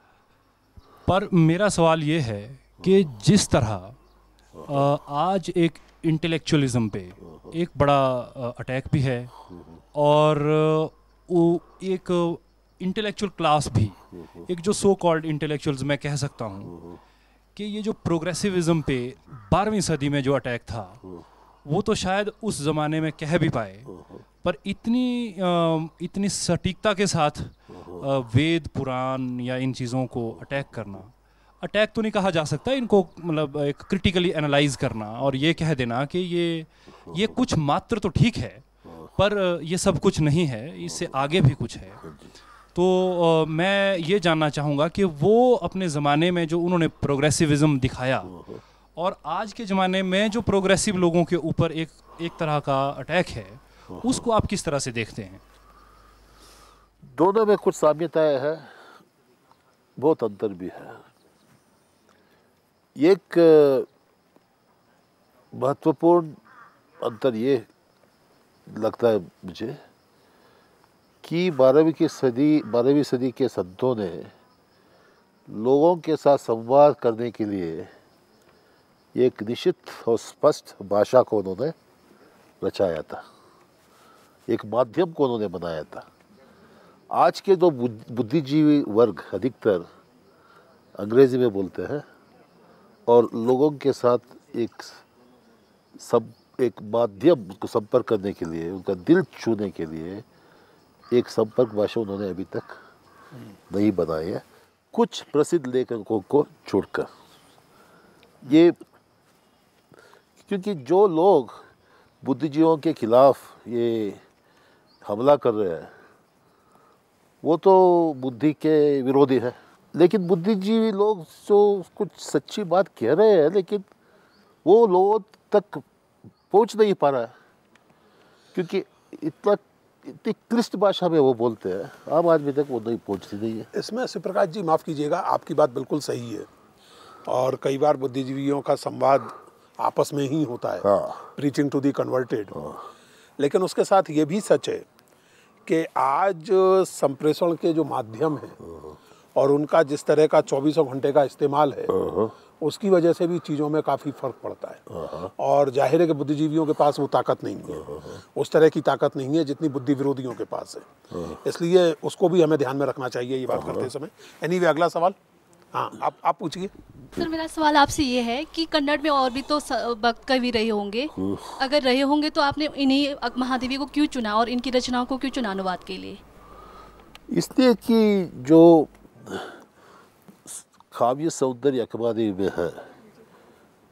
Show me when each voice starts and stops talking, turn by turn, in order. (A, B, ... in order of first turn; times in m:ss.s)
0:01.1-0:04.0 A
0:04.7-0:09.3 A
0:09.9-0:16.8 A
0:16.7-0:17.0 B
0:17.5-0:21.0 A
0:21.7-0:23.9 A
0:23.9-0:24.2 B
0:24.4-0:38.6 A
0:38.9-0:39.1 B
0:39.2-0:42.0 A
0:40.8-0:41.1 B
0:42.0-0:42.3 B
0:42.7-0:48.4 A
0:48.3-0:48.6 B
0:49.0-0:55.4 A
0:53.9-0:54.2 B
0:57.0-0:58.8 B
1:00.0-1:01.0 B
1:03.0-1:03.9 B
1:05.5-1:06.4 B
1:07.0-1:07.7 B
1:08.7-1:09.8 B
1:11.2-1:14.3 B
1:15.5-1:17.9 B
1:19.1-1:21.7 B
1:22.6-1:23.2 B
1:24.5-1:26.1 B
1:27.1-1:29.9 B
1:31.0-1:32.0 B
1:33.1-1:35.0 B
1:36.0-1:40.2 B
1:41.1-1:42.8 B
1:43.7-1:47.1 B
1:48.4-1:48.8 B
1:50.4-1:51.6 B
1:52.2-1:54.2 B
1:55.0-1:55.9 B
1:57.4-2:03.9 B
2:04.6-2:05.8 B
2:06.5-2:07.3 B
2:08.5-2:13.7 B
2:13.7-2:16.5 C
2:17.3-2:22.5 C
2:20.8-2:21.2 B
2:22.5-2:22.8 B
2:23.4-2:24.8 C
2:25.6-2:28.6 C
2:28.6-2:29.0 B
2:29.4-2:31.9 C
2:31.9-2:32.3 B
2:32.6-2:34.8 C
2:34.9-2:35.3 B
2:35.4-2:40.9 C
2:37.7-2:38.2 B
2:41.1-2:41.4 B
2:41.4-2:45.2 C
2:43.5-2:43.9 B
2:45.7-2:46.7 C
2:47.2-2:56.2 D
2:51.1-2:51.5 B
2:57.3-2:59.6 B
3:00.4-3:02.9 B